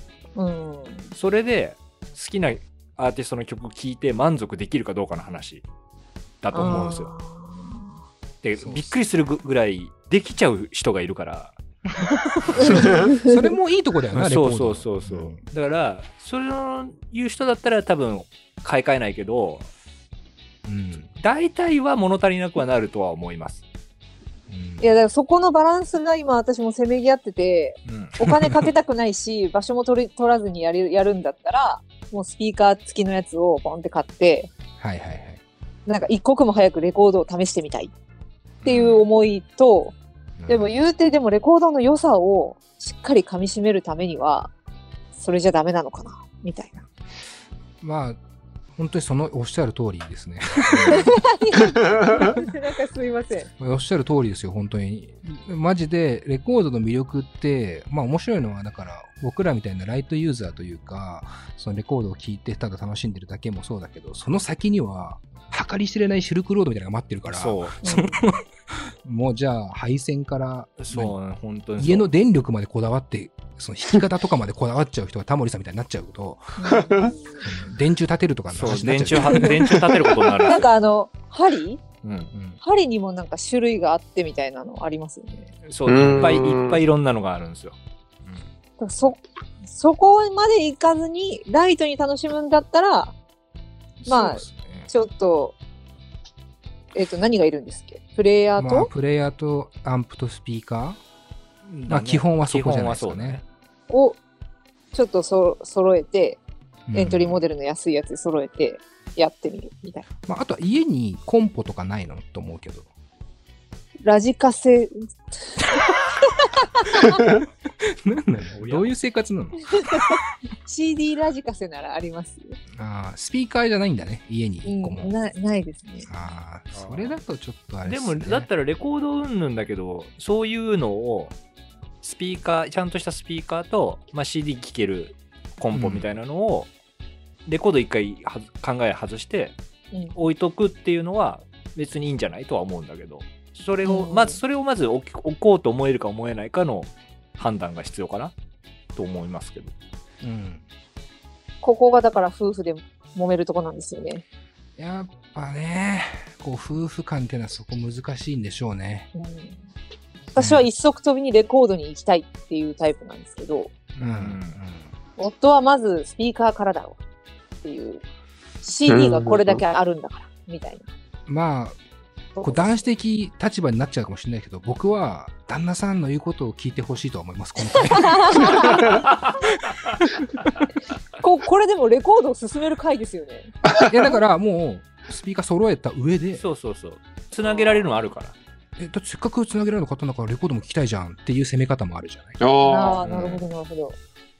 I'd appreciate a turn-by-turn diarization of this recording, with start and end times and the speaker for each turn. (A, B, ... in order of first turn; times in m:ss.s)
0:00.3-0:01.1 A
0:01.1-0:05.6 B
0:06.4-0:07.1 B
0:06.5-0:07.9 A
0:08.4-0:11.6 B
0:08.6-0:09.0 C
0:12.0-0:15.4 C
0:12.4-0:12.8 B
0:12.6-0:13.5 A
0:12.8-0:13.2 D
0:14.1-0:19.7 B
0:20.6-0:21.1 C
0:21.2-0:23.6 B
0:24.5-0:25.0 C
0:24.8-0:34.5 A
0:27.8-0:28.2 B
0:34.8-0:35.4 C
0:35.9-0:37.9 A
0:38.6-0:39.0 B
0:38.6-0:39.9 A
0:40.4-0:40.7 C
0:40.5-0:44.5 A
0:45.2-0:46.8 A
0:47.8-0:48.2 C
0:48.8-0:51.2 C
0:50.8-0:53.5 A
0:53.6-1:08.4 C
1:07.3-1:08.1 B
1:07.8-1:08.2 A
1:09.0-1:11.2 C
1:10.8-1:12.1 B
1:11.8-1:16.7 C
1:16.6-1:17.4 A
1:16.7-1:17.1 D
1:17.4-1:19.9 C
1:18.5-1:20.7 B
1:19.1-1:21.8 A
1:22.0-1:22.3 B
1:22.3-1:22.6 C
1:22.6-1:25.5 A
1:25.6-1:28.4 B
1:25.8-1:26.8 D
1:28.8-1:33.2 A
1:34.0-1:34.9 C
1:34.0-1:35.6 A
1:36.9-1:38.9 A
1:38.6-1:41.0 C
1:41.6-1:43.4 B
1:41.9-1:43.4 C
1:43.9-1:44.2 A
1:44.9-1:46.4 A
1:46.9-1:47.4 C
1:46.9-1:50.0 A
1:50.3-1:52.9 C
1:54.0-1:57.3 A
1:57.8-2:00.0 C
1:58.5-1:58.9 B
1:59.8-2:02.6 A
2:02.8-2:05.1 C
2:04.6-2:06.1 A
2:06.1-2:08.5 C
2:06.7-2:07.2 B
2:07.8-2:11.3 B
2:12.0-2:16.7 B
2:15.7-2:16.1 C
2:17.4-2:19.5 B
2:19.9-2:20.2 A
2:20.1-2:28.3 B
2:23.8-2:24.4 A
2:29.0-2:29.7 B
2:30.2-2:30.6 C
2:31.6-2:34.2 A
2:34.8-2:39.1 C
2:39.1-2:39.6 A
2:40.3-2:43.7 A
2:40.4-2:40.7 C
2:44.0-2:44.6 B
2:44.0-2:44.9 C
2:45.2-2:47.0 A
2:47.6-2:48.0 A
2:48.6-2:50.9 A
2:48.9-2:49.6 D
2:51.3-2:51.8 C
2:52.4-2:52.8 A
2:52.4-2:59.0 C
2:57.8-2:58.8 A
2:58.8-2:59.3 B
2:59.9-3:00.5 C
3:01.2-3:03.5 A
3:03.8-3:06.4 C
3:06.4-3:08.3 B
3:08.8-3:12.4 C
3:12.4-3:13.2 D
3:12.6-3:14.0 A
3:13.0-3:13.4 B